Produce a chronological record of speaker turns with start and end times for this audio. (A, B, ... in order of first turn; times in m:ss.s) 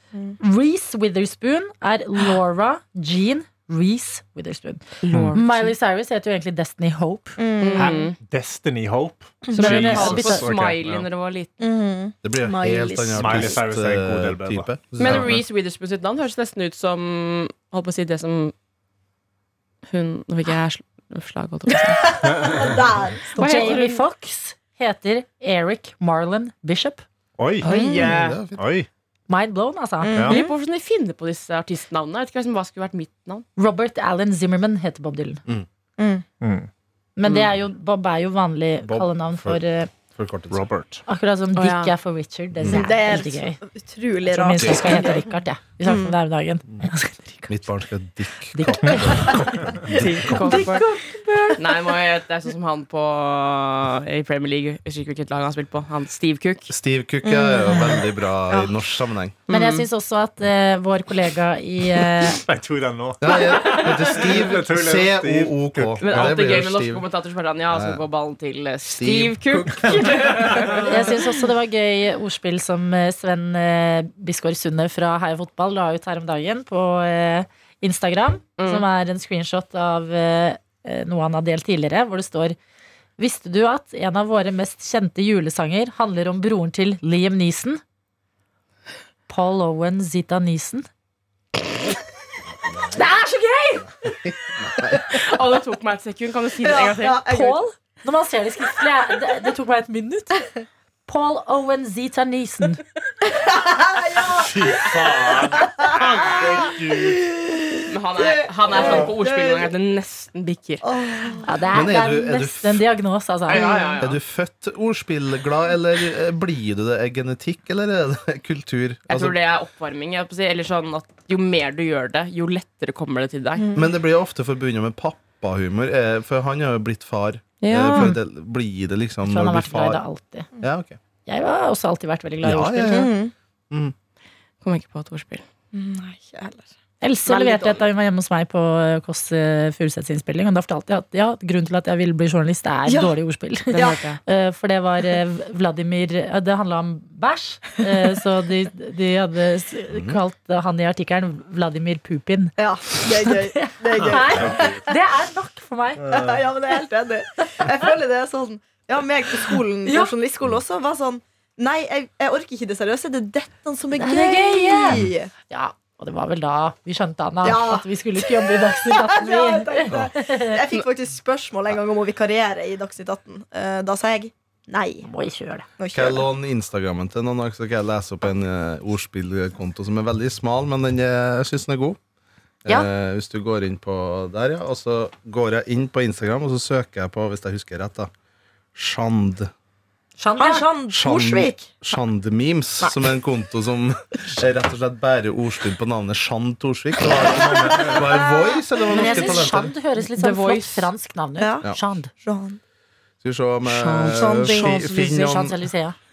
0:00.4-0:07.4 A
0:05.0-0:05.7 B
0:07.4-0:08.0 C
0:07.6-0:08.2 B
0:07.8-0:11.0 D
0:09.5-0:11.5 B
0:09.6-0:10.4 A
0:11.6-0:13.6 C
0:12.2-0:15.3 E
0:13.1-0:15.4 D
0:15.0-0:18.5 B
0:19.8-0:22.1 B
0:22.0-0:23.9 C
0:22.2-0:22.7 D
0:23.3-0:24.0 B
0:23.4-0:27.0 A
0:27.4-0:28.9 D
0:27.6-0:28.4 B
0:27.6-0:28.1 C
0:28.0-0:28.6 E
0:29.3-0:30.2 A
0:30.0-0:30.5 C
0:30.3-0:33.4 B
0:33.6-0:35.4 A
0:36.0-0:36.2 C
0:36.4-0:36.7 D
0:37.2-0:39.9 A
0:38.8-0:39.6 E
0:40.1-0:40.6 E
0:40.5-0:41.0 D
0:41.1-0:43.6 A
0:41.5-0:41.9 B
0:42.6-0:42.8 E
0:42.7-0:46.2 C
0:44.3-0:47.6 A
0:44.6-0:45.0 E
0:47.5-0:49.8 E
0:48.5-0:51.8 A
0:49.9-0:50.9 B
0:49.9-0:50.8 C
0:51.6-0:56.7 B
0:56.7-0:59.4 E
0:57.2-0:58.8 C
0:57.6-0:57.9 A
0:59.5-0:59.9 B
0:59.5-1:02.4 A
1:02.0-1:06.2 D
1:03.2-1:07.0 E
1:03.3-1:03.8 B
1:06.0-1:11.3 B
1:07.7-1:08.0 E
1:08.9-1:09.7 E
1:09.8-1:10.8 D
1:10.8-1:22.6 A
1:18.6-1:18.8 B
1:23.2-1:27.8 A
1:29.3-1:30.8 A
1:32.7-1:33.0 E
1:32.9-1:33.9 A
1:34.0-1:35.2 E
1:35.1-1:37.4 B
1:36.6-1:37.6 C
1:37.2-1:40.5 A
1:41.1-1:42.8 A
1:43.2-1:49.7 C
1:44.3-1:47.2 D
1:47.9-1:50.8 B
1:50.8-1:51.6 C
1:51.4-1:53.9 A
1:51.7-1:52.8 E
1:53.5-1:54.2 B
1:53.6-1:54.0 C
1:54.0-1:59.4 E
1:59.1-2:03.6 B
2:03.6-2:03.9 C
2:03.7-2:10.0 E
2:07.6-2:08.2 B
2:09.2-2:10.5 A
2:10.6-2:11.0 E
2:11.2-2:13.1 A
2:12.4-2:13.1 E
2:12.9-2:13.3 C
2:14.6-2:15.4 B
2:15.7-2:16.7 C
2:17.0-2:36.1 A
2:17.3-2:17.7 C
2:17.3-2:17.8 B
2:22.9-2:23.2 C
2:23.7-2:24.2 B
2:29.9-2:30.2 E
2:32.6-2:34.9 C
2:34.1-2:34.7 D
2:36.1-2:45.3 C
2:39.8-2:40.1 A
2:44.0-2:50.6 A
2:47.4-2:55.1 C
2:55.0-2:55.6 A
2:55.8-2:56.2 C
2:55.9-3:02.0 E
3:02.6-3:08.1 E
3:08.7-3:09.5 E
3:10.2-3:10.8 A
3:10.4-3:11.8 C
3:10.9-3:19.7 E
3:12.8-3:13.1 C
3:17.7-3:19.4 C
3:18.9-3:22.1 A
3:20.0-3:20.9 B
3:21.4-3:21.7 C
3:22.2-3:22.6 C
3:23.2-3:25.6 E
3:23.6-3:25.0 C
3:24.4-3:25.9 A